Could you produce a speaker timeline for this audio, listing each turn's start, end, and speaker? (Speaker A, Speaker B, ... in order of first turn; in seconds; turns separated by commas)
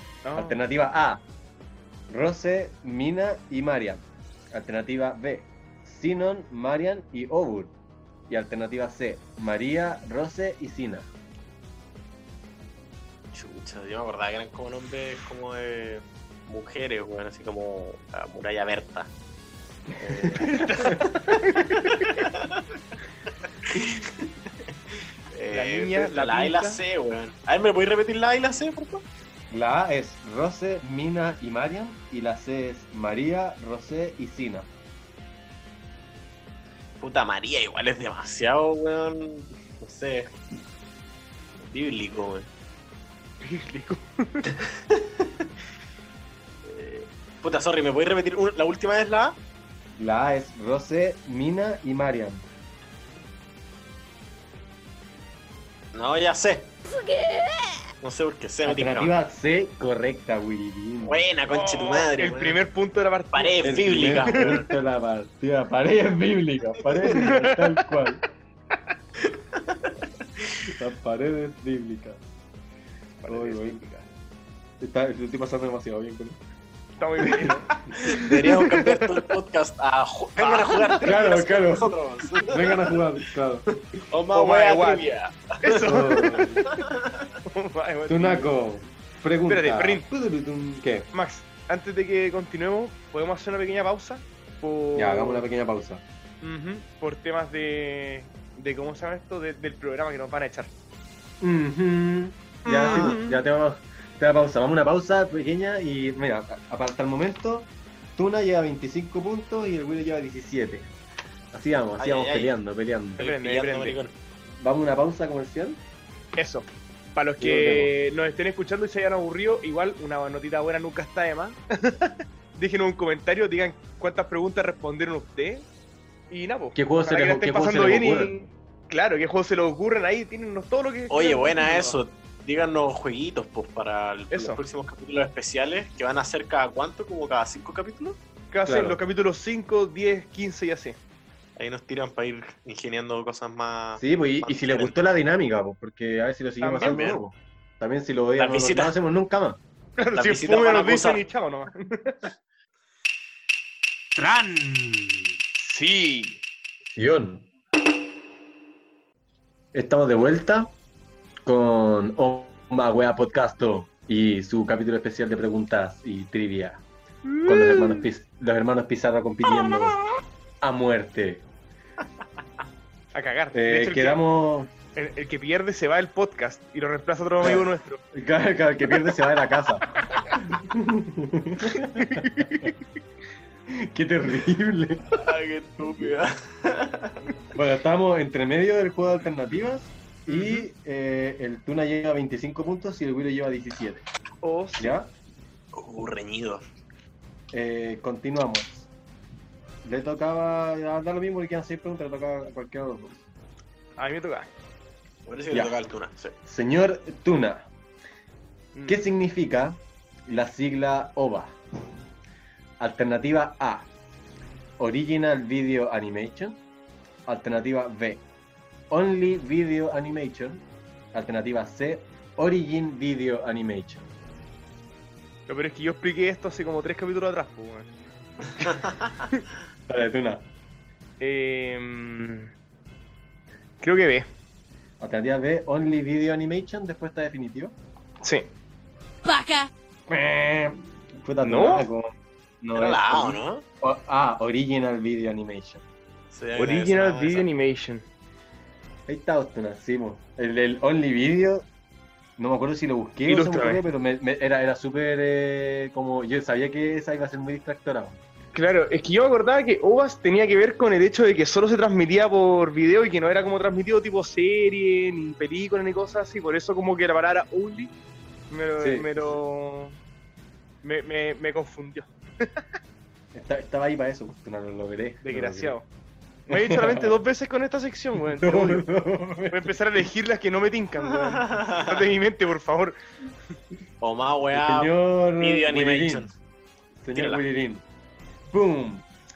Speaker A: 0.2-0.6, Speaker B: 0.3-1.2, Speaker B: 2.1-7.7, Speaker B: 8.3-11.1, Speaker C: 13.3-19.1, Speaker C: 20.0-20.6, Speaker B: 20.0-21.0, Speaker A: 20.4-22.2, Speaker C: 21.9-22.6, Speaker C: 23.6-24.3, Speaker C: 25.3-29.0, Speaker A: 25.5-26.8, Speaker B: 29.5-34.7, Speaker C: 37.0-40.3, Speaker C: 41.6-42.5, Speaker A: 43.4-44.5, Speaker C: 44.9-45.3, Speaker C: 46.6-49.4, Speaker B: 50.0-52.4, Speaker C: 55.9-56.7, Speaker C: 58.0-59.1, Speaker B: 58.6-61.2, Speaker C: 61.0-62.6, Speaker A: 61.5-63.7, Speaker C: 63.3-64.7, Speaker B: 63.6-68.2, Speaker A: 67.0-67.8, Speaker C: 69.2-70.5, Speaker B: 70.7-72.2, Speaker A: 73.2-74.1, Speaker B: 73.3-73.8, Speaker B: 74.8-76.4, Speaker A: 77.0-79.2, Speaker B: 77.2-78.3, Speaker C: 77.7-83.0, Speaker A: 80.4-81.2, Speaker B: 81.0-83.7, Speaker C: 84.0-87.3, Speaker A: 84.3-85.1, Speaker A: 85.6-86.8, Speaker B: 85.8-86.6, Speaker A: 87.5-88.5, Speaker B: 88.1-91.1, Speaker A: 89.5-90.0, Speaker A: 91.1-95.4, Speaker B: 94.9-96.0, Speaker A: 96.4-100.7, Speaker B: 101.4-110.9, Speaker A: 102.6-103.4, Speaker C: 102.9-103.2, Speaker B: 111.5-113.2, Speaker C: 112.0-112.5, Speaker A: 113.2-114.0, Speaker C: 113.2-114.1, Speaker B: 114.6-115.8, Speaker A: 116.3-125.7, Speaker B: 117.4-117.9, Speaker A: 126.3-132.0, Speaker B: 126.7-128.4, Speaker C: 131.1-138.2, Speaker A: 134.3-134.6, Speaker A: 138.5-141.0, Speaker B: 138.6-139.0, Speaker C: 141.6-144.9, Speaker B: 144.0-149.6, Speaker A: 146.6-147.0, Speaker C: 146.8-147.2, Speaker C: 148.4-148.9, Speaker A: 150.0-152.2, Speaker C: 150.1-151.2, Speaker A: 154.2-155.0, Speaker A: 155.6-156.4, Speaker B: 156.9-157.5, Speaker B: 159.7-160.7, Speaker B: 161.4-166.8, Speaker A: 167.2-168.0, Speaker B: 167.4-170.0, Speaker B: 170.6-171.4, Speaker A: 173.1-174.2, Speaker B: 173.5-174.7, Speaker A: 174.9-178.0, Speaker B: 177.4-179.8, Speaker B: 180.4-182.7, Speaker A: 181.9-182.7, Speaker B: 183.7-185.1, Speaker C: 185.1-187.2, Speaker B: 185.8-186.1, Speaker B: 187.5-194.1, Speaker A: 190.3-190.7, Speaker A: 194.4-194.9, Speaker B: 194.8-195.1, Speaker C: 195.7-196.6, Speaker B: 197.5-198.9, Speaker B: 199.8-203.2, Speaker A: 204.0-204.5, Speaker C: 205.2-206.3, Speaker B: 205.5-205.8, Speaker B: 206.4-207.7, Speaker A: 208.7-209.0, Speaker B: 208.9-211.6, Speaker B: 212.8-213.9, Speaker B: 214.8-216.6, Speaker B: 217.2-218.2, Speaker B: 218.9-224.0, Speaker A: 225.5-227.9, Speaker B: 229.9-230.4, Speaker A: 231.2-232.5, Speaker A: 233.8-234.3, Speaker B: 235.0-237.7, Speaker A: 238.2-238.5, Speaker B: 240.1-245.8, Speaker A: 241.4-241.9, Speaker C: 242.7-243.6, Speaker C: 246.3-247.5, Speaker A: 246.6-248.0, Speaker B: 249.1-251.7, Speaker B: 252.4-258.2, Speaker A: 253.3-253.8, Speaker A: 258.5-267.9, Speaker A: 268.5-269.9, Speaker B: 268.8-269.3, Speaker A: 270.8-272.6, Speaker B: 273.3-275.8, Speaker A: 275.2-275.9, Speaker B: 276.5-277.2, Speaker A: 276.5-278.9, Speaker B: 278.2-279.7, Speaker A: 279.5-282.9, Speaker C: 281.1-282.1, Speaker C: 284.0-286.3, Speaker B: 284.5-286.3, Speaker B: 287.0-287.8, Speaker C: 287.1-287.4, Speaker B: 288.5-289.1